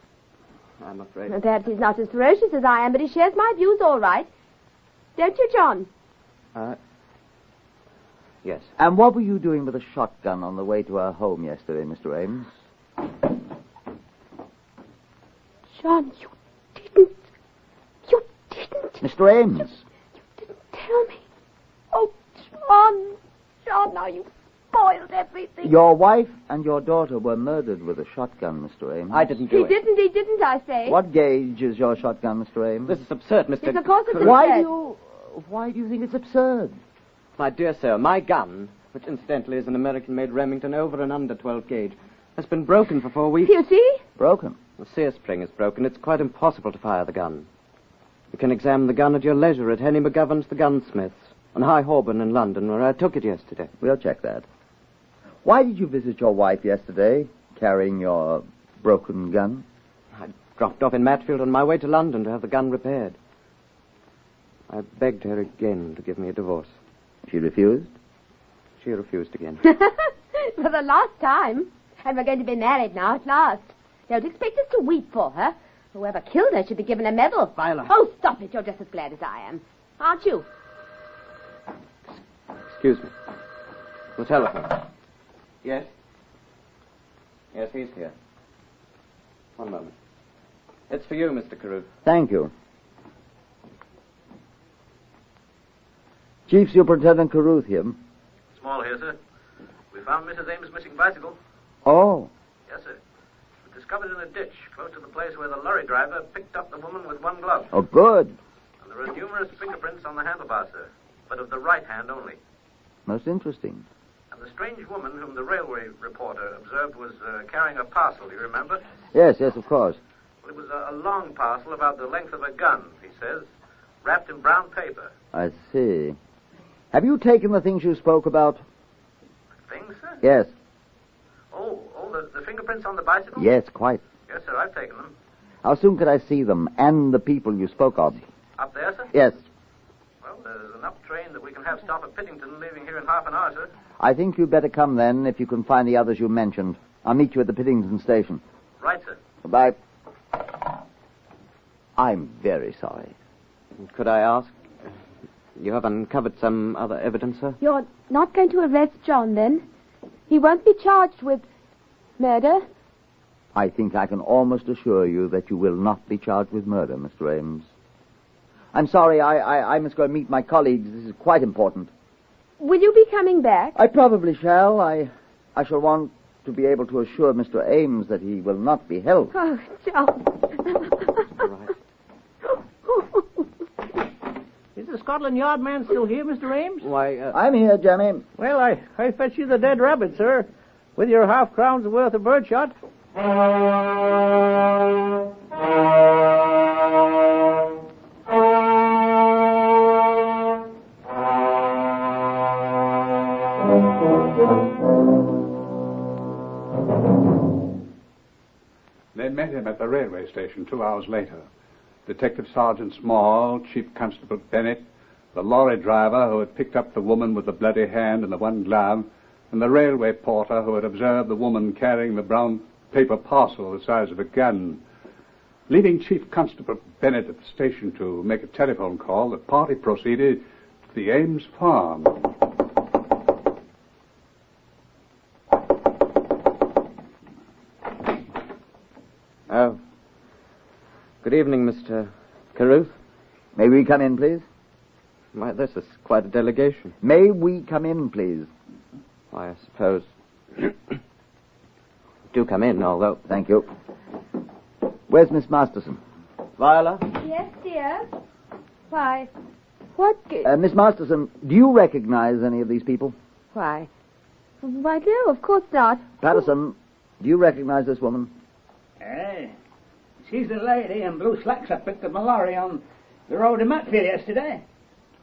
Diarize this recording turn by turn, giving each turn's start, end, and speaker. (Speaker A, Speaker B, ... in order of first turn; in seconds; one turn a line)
Speaker A: 0.8-1.4
Speaker B: 1.3-4.3
Speaker B: 5.2-5.9
Speaker C: 8.8-12.5
Speaker B: 15.8-17.1
Speaker B: 18.1-19.0
Speaker C: 19.0-19.8
Speaker B: 20.4-21.2
Speaker B: 21.9-25.7
Speaker C: 25.6-29.3
Speaker A: 29.1-29.8
Speaker B: 29.5-31.0
Speaker C: 30.9-33.0
Speaker A: 32.9-34.5
Speaker B: 33.6-34.7
Speaker C: 34.2-36.8
Speaker A: 37.4-43.5
Speaker B: 43.4-44.0
Speaker C: 44.2-44.6
Speaker A: 44.8-47.5
Speaker A: 48.3-53.7
Speaker C: 53.8-54.5
Speaker C: 55.4-59.6
Speaker A: 60.2-63.2
Speaker A: 64.7-66.7
Speaker C: 67.3-67.9
Speaker A: 68.8-69.6
Speaker B: 69.6-80.5
Speaker A: 77.6-77.8
Speaker A: 82.7-83.1
Speaker A: 84.2-84.8
Speaker A: 85.6-85.9
Speaker A: 87.5-88.1
Speaker A: 89.6-89.9
Speaker A: 90.9-91.9
Speaker C: 92.0-92.5
Speaker C: 96.5-98.0
Speaker D: 98.5-99.2
Speaker D: 99.9-101.4
Speaker C: 101.8-102.3
Speaker D: 102.7-103.0
Speaker D: 103.7-107.7
Speaker C: 107.7-108.4
Speaker D: 108.8-112.4
Speaker C: 113.1-113.8
Speaker D: 114.3-118.8
Speaker C: 119.1-120.0
Speaker D: 120.4-123.5
Speaker D: 124.0-125.1
Speaker C: 125.3-126.2
Speaker C: 126.9-128.6
Speaker D: 129.7-130.2
Speaker C: 130.2-130.5
Speaker D: 131.5-133.5
Speaker C: 133.4-134.0
Speaker D: 134.3-135.1
Speaker C: 135.6-138.2
Speaker D: 138.6-139.1
Speaker C: 139.1-139.4
Speaker D: 140.2-143.7
Speaker C: 144.0-148.4
Speaker D: 148.8-149.2
Speaker C: 149.4-149.8
Speaker C: 152.0-153.2
Speaker A: 153.8-154.5
Speaker A: 155.6-157.6
Speaker B: 157.6-159.6
Speaker B: 160.3-161.4
Speaker B: 162.2-162.7
Speaker C: 163.6-167.7
Speaker C: 168.7-171.9
Speaker B: 172.6-173.8
Speaker C: 173.8-179.3
Speaker B: 179.3-181.3
Speaker A: 181.4-181.7
Speaker B: 182.9-183.2
Speaker E: 184.8-186.9
Speaker A: 186.8-187.4
Speaker C: 187.3-188.2
Speaker E: 188.4-192.7
Speaker F: 209.2-211.5
Speaker F: 212.1-224.8
Speaker F: 225.7-232.2
Speaker A: 239.5-239.8
Speaker A: 241.2-243.0
Speaker C: 243.6-244.4
Speaker A: 245.3-246.9
Speaker C: 247.0-248.5
Speaker A: 249.3-250.1
Speaker A: 252.3-253.2
Speaker C: 253.3-253.7
Speaker C: 255.1-256.0
Speaker B: 257.1-258.1
Speaker B: 258.9-259.3
Speaker B: 260.0-260.5
Speaker C: 260.4-263.1
Speaker B: 263.5-263.9
Speaker B: 264.6-266.1
Speaker C: 266.2-268.3
Speaker G: 269.0-269.5
Speaker G: 270.2-274.6